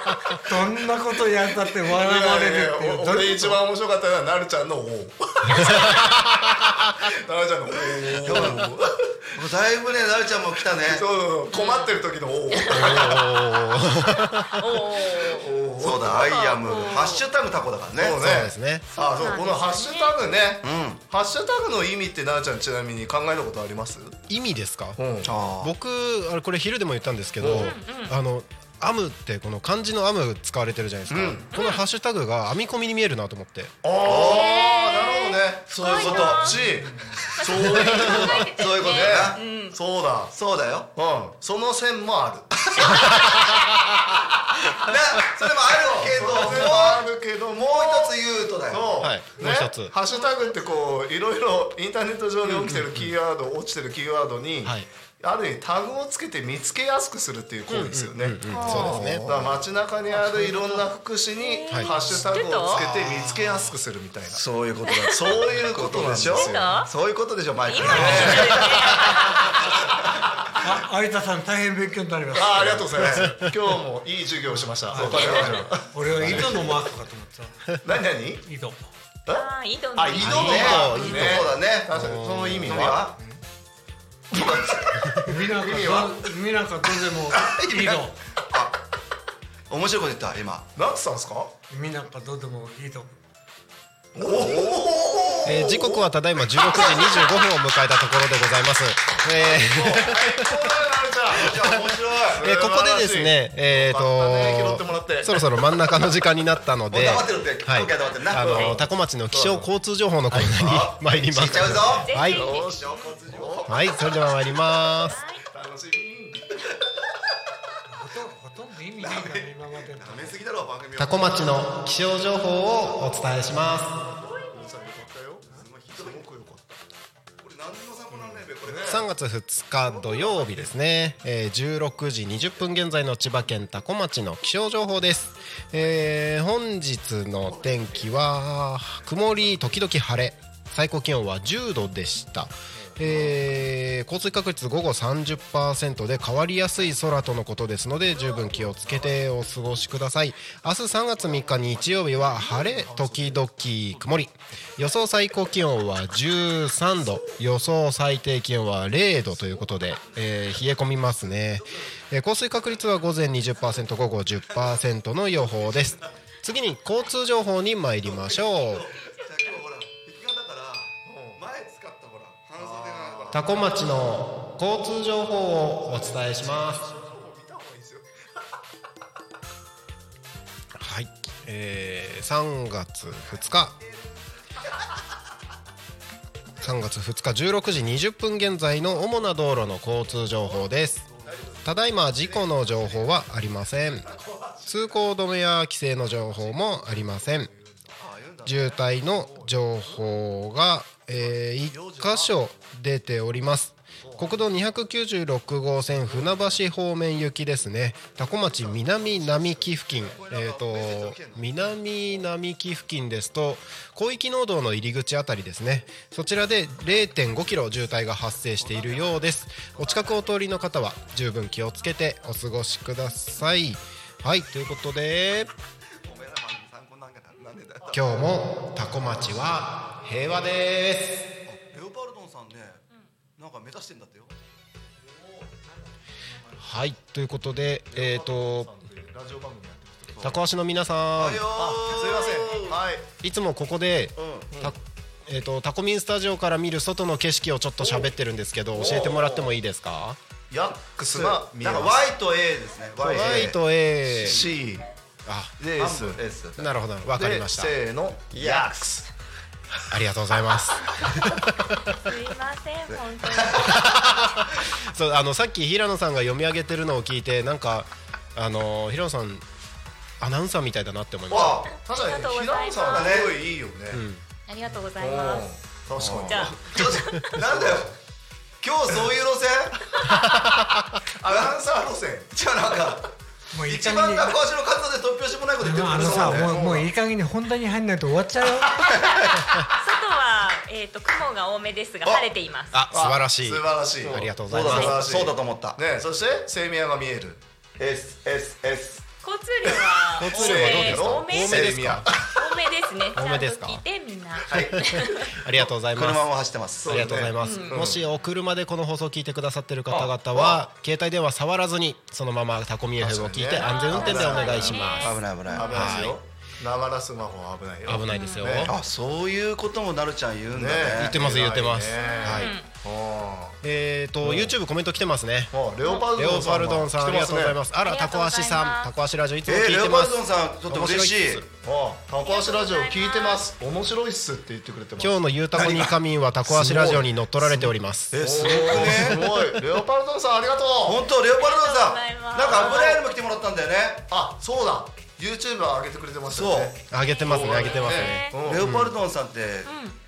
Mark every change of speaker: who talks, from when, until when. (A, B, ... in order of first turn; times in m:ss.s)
0:00.4-0:03.6 A
0:01.9-0:09.3 B
0:05.5-0:06.8 C
0:08.2-0:08.7 D
0:09.4-0:11.0 D
0:10.8-0:13.5 B
0:11.5-0:13.2 E
0:12.7-0:14.6 C
0:14.1-0:15.5 E
0:15.2-0:16.3 B
0:15.8-0:18.2 D
0:16.2-0:17.2 E
0:17.9-0:24.2 B
0:18.2-0:18.8 C
0:19.0-0:20.2 E
0:20.6-0:21.0 D
0:24.3-0:25.0 C
0:25.0-0:25.3 B
0:25.2-0:25.7 D
0:25.6-0:33.7 C
0:27.4-0:27.7 B
0:27.5-0:28.2 E
0:31.1-0:31.5 B
0:31.5-0:31.8 E
0:33.8-0:40.3 B
0:34.0-0:34.5 D
0:34.1-0:36.6 E
0:35.7-0:36.6 D
0:36.6-0:37.2 A
0:37.4-0:39.8 E
0:38.0-0:39.4 D
0:40.3-0:40.9 D
0:41.0-0:42.9 B
0:42.7-0:43.0 D
0:43.1-0:43.3 C
0:44.8-0:48.9 D
0:45.8-0:48.2 B
0:48.7-1:06.8 B
0:49.0-0:49.9 C
0:52.6-0:53.1 C
0:57.7-0:59.6 C
0:58.5-0:59.2 E
1:00.2-1:00.7 C
1:00.2-1:00.8 A
1:01.4-1:02.8 E
1:02.6-1:03.7 C
1:04.3-1:05.1 D
1:04.9-1:05.3 E
1:05.6-1:10.6 D
1:06.3-1:06.9 E
1:07.7-1:09.5 E
1:07.9-1:08.4 A
1:07.9-1:09.4 B
1:10.5-1:13.1 A
1:12.3-1:16.8 B
1:13.0-1:13.4 D
1:14.5-1:15.3 A
1:14.9-1:15.6 D
1:15.1-1:15.6 E
1:15.9-1:17.6 A
1:16.3-1:16.5 C
1:17.8-1:18.4 B
1:18.4-1:18.9 A
1:19.3-1:23.1 B
1:19.3-1:21.2 E
1:20.2-1:22.9 C
1:20.3-1:23.2 D
1:24.3-1:25.0 D
1:24.4-1:26.3 B
1:25.2-1:28.2 A
1:27.3-1:28.8 D
1:29.7-1:30.7 D
1:30.8-1:31.5 B
1:31.7-1:33.2 A
1:34.1-1:37.4 B
1:34.2-1:35.7 D
1:35.5-1:40.8 C
1:36.8-1:37.3 E
1:39.4-1:41.8 B
1:39.9-1:40.1 D
1:41.3-1:42.4 D
1:41.4-1:52.5 C
1:42.3-1:46.2 B
1:46.9-1:48.8 D
1:48.4-1:48.8 B
1:49.3-1:49.7 B
1:50.4-1:53.7 D
1:52.0-1:53.1 E
1:52.3-1:53.7 B
1:53.6-1:55.2 C
1:55.0-1:55.4 E
1:55.5-1:56.8 B
1:57.9-2:00.4 A
1:59.0-2:01.6 D
2:01.0-2:04.0 C
2:04.2-2:06.8 B
2:05.5-2:06.3 D
2:07.4-2:09.0 D
2:08.1-2:09.1 B
2:08.8-2:48.9 C
2:09.9-2:10.7 D
2:17.5-2:18.1 D
2:22.8-2:23.5 B
2:28.1-2:29.2 B
2:31.2-2:33.5 B
2:37.0-2:37.5 D
2:39.7-2:40.2 D
2:41.5-2:41.9 D
2:44.5-2:44.8 D
2:45.4-2:46.1 D
2:48.0-2:53.6 D
2:51.1-2:51.4 B
2:52.6-2:53.6 B
2:53.3-2:56.8 C
2:56.4-2:58.1 B
3:00.8-3:03.8 C
3:03.3-3:04.8 D
3:06.6-3:11.1 C
3:10.4-3:14.9 D
3:11.6-3:14.1 C
3:14.7-3:17.5 C
3:16.1-3:18.0 B
3:18.0-3:19.0 D
3:18.4-3:45.5 C
3:19.1-3:20.1 B
3:21.8-3:22.3 B
3:26.1-3:26.5 B
3:28.2-3:30.2 B
3:30.0-3:31.7 D
3:38.6-3:40.1 D
3:46.0-3:48.0 D
3:47.9-3:51.3 C
3:51.5-3:52.8 D
3:53.4-3:54.3 D
3:55.1-3:55.6 B
3:56.6-3:58.7 C
3:57.9-4:00.3 B
4:00.2-4:01.5 C
4:01.2-4:02.8 D
4:01.5-4:03.1 B
4:03.2-4:10.2 C
4:04.2-4:04.5 D
4:08.7-4:09.6 D
4:10.5-4:12.1 B
4:11.0-4:13.6 D
4:13.0-4:14.5 C
4:13.0-4:13.3 B
4:14.1-4:14.9 B
4:14.2-4:14.4 D
4:15.2-4:15.6 C
4:15.6-4:16.2 B
4:15.8-4:16.7 D
4:16.6-4:17.7 C
4:17.1-4:19.1 B
4:18.3-4:18.8 D
4:19.9-4:22.0 C
4:22.0-4:24.1 E
4:23.0-4:23.8 D
4:23.6-4:29.4 C
4:30.2-4:31.7 C
4:31.3-4:31.8 D
4:31.3-4:34.0 B
4:31.9-4:33.3 E
4:32.8-4:33.3 D
4:33.9-4:34.2 C
4:34.5-4:35.5 E
4:35.0-4:36.8 B
4:35.9-4:38.0 D
4:36.3-4:37.4 E
4:37.4-4:38.0 B
4:38.6-4:39.9 D
4:41.2-4:42.3 B
4:42.3-4:43.1 D
4:43.5-4:44.3 A
4:43.6-4:46.5 D
4:45.6-4:49.0 A
4:45.9-4:46.9 B
4:48.9-4:49.4 D
4:49.7-4:52.8 E
4:52.7-4:55.0 C
4:52.9-4:57.4 B
4:54.4-4:55.8 D
4:57.8-4:59.0 D
4:59.2-5:05.3 E
5:00.2-5:02.1 C
5:00.2-5:02.4 B
5:01.5-5:02.0 D
5:03.2-5:03.8 C
5:04.4-5:05.6 B
5:04.5-5:06.2 C
5:05.9-5:07.0 D
5:06.8-5:08.0 B
5:06.8-5:15.2 C
5:07.4-5:07.9 E
5:09.9-5:10.7 D
5:13.0-5:18.7 B
5:13.5-5:16.0 E
5:15.0-5:15.8 D
5:15.7-5:16.2 C
5:17.9-5:18.7 C
5:18.1-5:18.5 E
5:18.7-5:21.3 D
5:20.5-5:23.6 B
5:21.0-5:22.6 C
5:21.9-5:22.7 E
5:23.6-5:31.4 C
5:24.2-5:24.5 B
5:25.5-5:27.6 B
5:27.9-5:28.9 E
5:29.5-5:31.5 D
5:31.6-5:35.2 B
5:32.2-5:33.4 E
5:35.0-5:39.3 C
5:35.5-5:36.0 D
5:36.6-5:37.0 B
5:36.8-5:39.3 D
5:38.2-5:41.0 B
5:40.8-5:44.1 D
5:41.4-5:43.0 E
5:42.5-5:42.8 B
5:44.1-5:48.7 B
5:46.3-5:46.8 D
5:46.9-5:48.9 C
5:47.0-5:48.4 E
5:48.4-5:49.7 D
5:49.6-5:50.0 E